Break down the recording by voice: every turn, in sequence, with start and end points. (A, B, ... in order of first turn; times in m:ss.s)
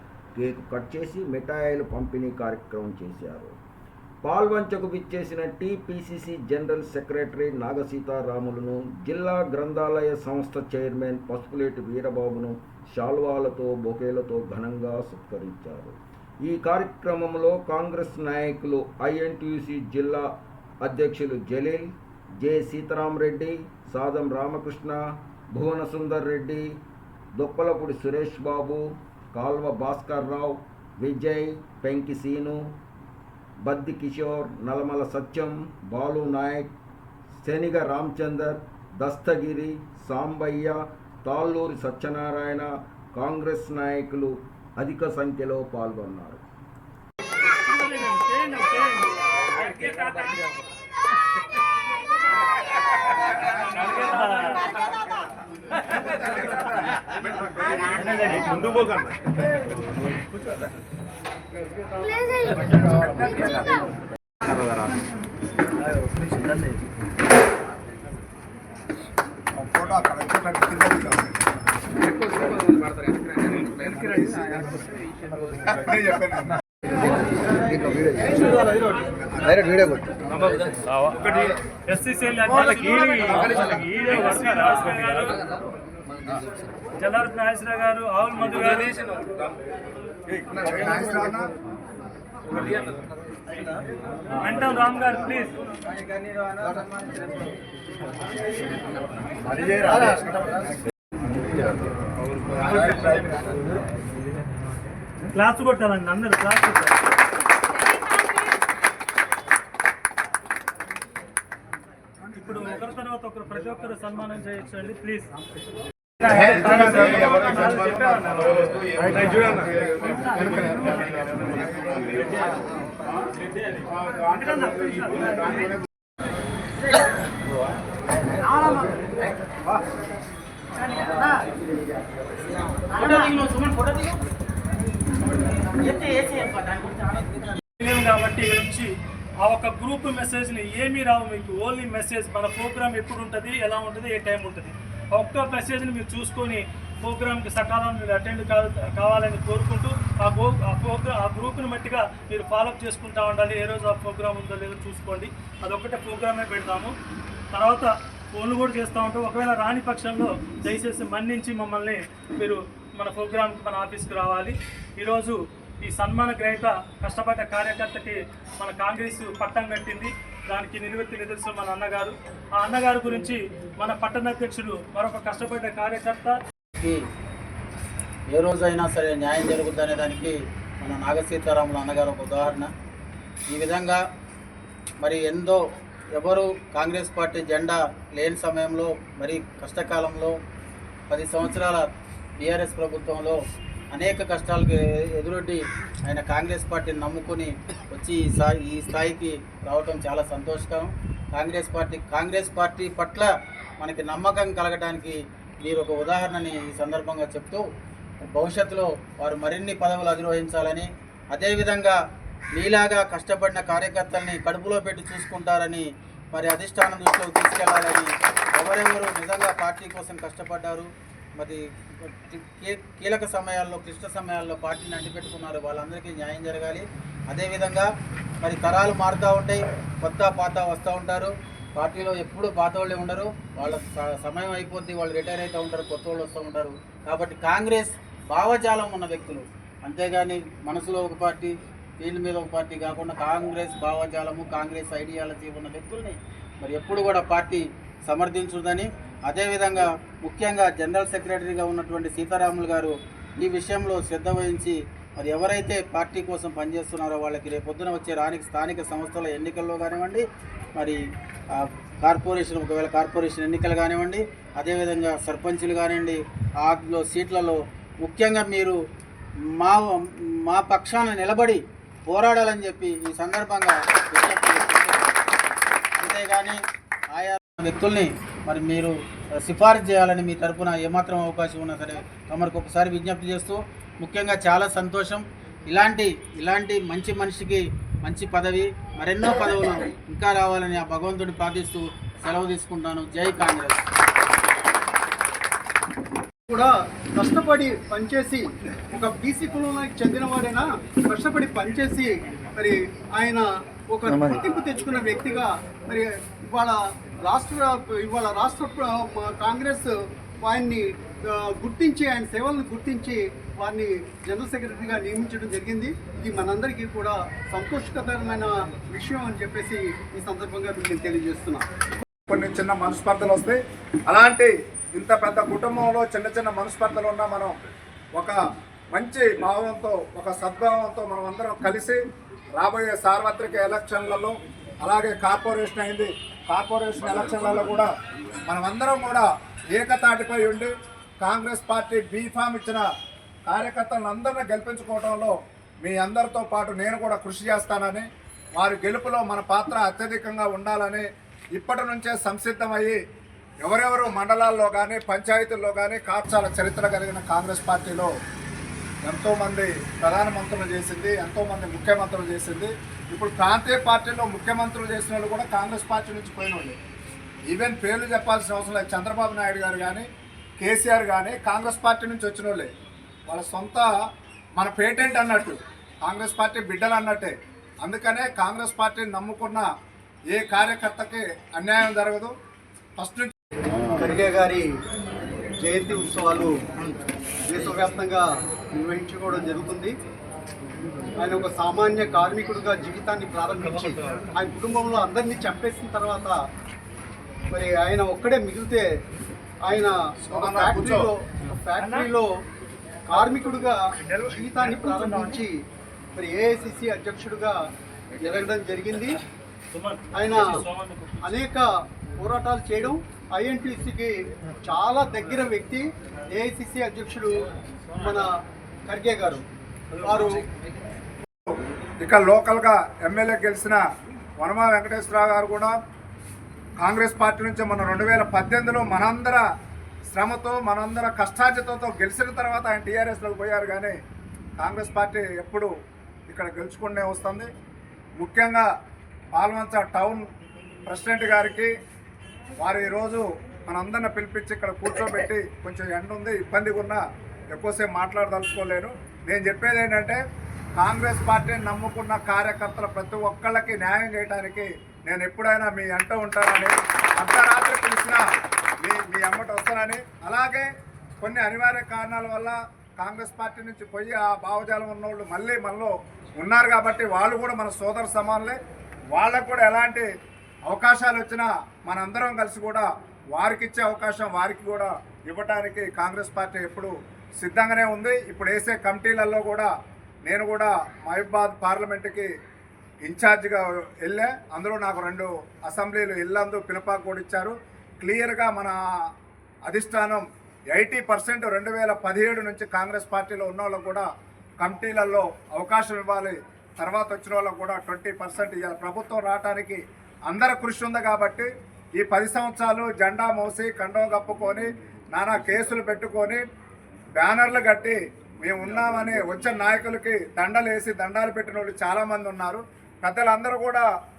0:00.3-0:03.5 A
0:04.2-0:26.7 A
0:27.3-0:32.7 A
0:33.6-0:36.7 A
0:37.4-0:46.4 A
0:47.6-0:50.3 B
0:53.6-0:54.7 B
0:56.2-0:56.7 C
0:57.9-0:58.9 B
1:02.6-1:03.7 C
1:09.6-1:11.4 C
1:13.8-1:14.6 C
1:15.6-1:16.6 C
1:21.9-1:25.4 B
1:27.0-1:29.0 B
1:30.4-1:31.5 C
1:34.4-1:35.5 B
1:42.8-1:43.2 B
1:45.3-1:46.9 B
1:52.3-1:55.3 B
1:56.2-1:58.6 B
2:00.4-2:01.0 B
2:04.2-2:05.7 B
2:12.9-2:14.2 D
2:15.6-2:17.5 D
2:17.8-2:18.9 B
2:19.4-2:36.9 B
2:37.5-2:56.3 B
2:58.3-3:02.7 D
3:03.5-3:04.0 D
3:05.0-3:05.6 D
3:06.1-3:10.3 D
3:11.1-3:11.8 D
3:12.4-3:13.4 D
3:13.9-3:27.6 D
3:28.3-3:32.0 D
3:32.5-3:47.9 D
3:48.4-4:20.2 D
4:21.5-4:28.8 D
4:29.6-4:35.2 D
4:36.0-4:36.6 D
4:37.1-4:53.8 D
4:56.5-5:06.7 E
5:07.2-5:09.9 E
5:10.4-5:21.6 E
5:22.3-5:27.6 C
5:28.9-5:32.0 C
5:32.6-5:37.9 C
5:38.5-5:42.8 C
5:43.5-5:53.0 C
5:53.6-5:58.1 C
5:59.0-6:06.8 C
6:07.5-6:10.1 C
6:10.6-6:12.7 C
6:13.3-6:13.9 C
6:14.6-6:19.7 C
6:20.3-6:22.3 C
6:23.0-6:23.3 C
6:24.0-6:24.7 E
6:25.6-6:26.5 E
6:27.5-6:29.9 E
6:31.2-6:36.4 E
6:37.5-6:38.8 E
6:39.6-6:42.3 E
6:40.2-6:41.1 C
6:41.8-6:42.1 B
6:43.1-6:43.8 E
6:44.1-6:45.4 B
6:44.3-6:45.5 E
6:46.2-6:47.5 E
6:48.2-6:49.2 E
6:49.7-6:51.3 B
6:50.1-6:50.6 E
6:51.2-6:51.6 E
6:52.2-6:57.3 E
6:58.0-6:58.3 E
6:58.9-6:59.4 E
7:00.0-7:00.4 E
7:01.5-7:03.8 C
7:04.4-7:05.8 C
7:06.8-7:09.4 C
7:10.1-7:14.0 C
7:14.6-7:15.7 C
7:16.3-7:17.5 C
7:18.2-7:18.6 C
7:19.3-7:20.2 C
7:20.8-7:21.7 C
7:22.6-7:27.0 C
7:27.5-7:30.2 C
7:30.8-7:38.2 C
7:38.8-7:40.7 C
7:41.2-7:48.6 C
7:49.1-7:50.1 C
7:50.7-7:59.7 C
8:00.2-8:02.3 C
8:03.0-8:08.8 C
8:09.6-8:14.1 C
8:14.6-8:26.4 C
8:27.2-8:33.8 C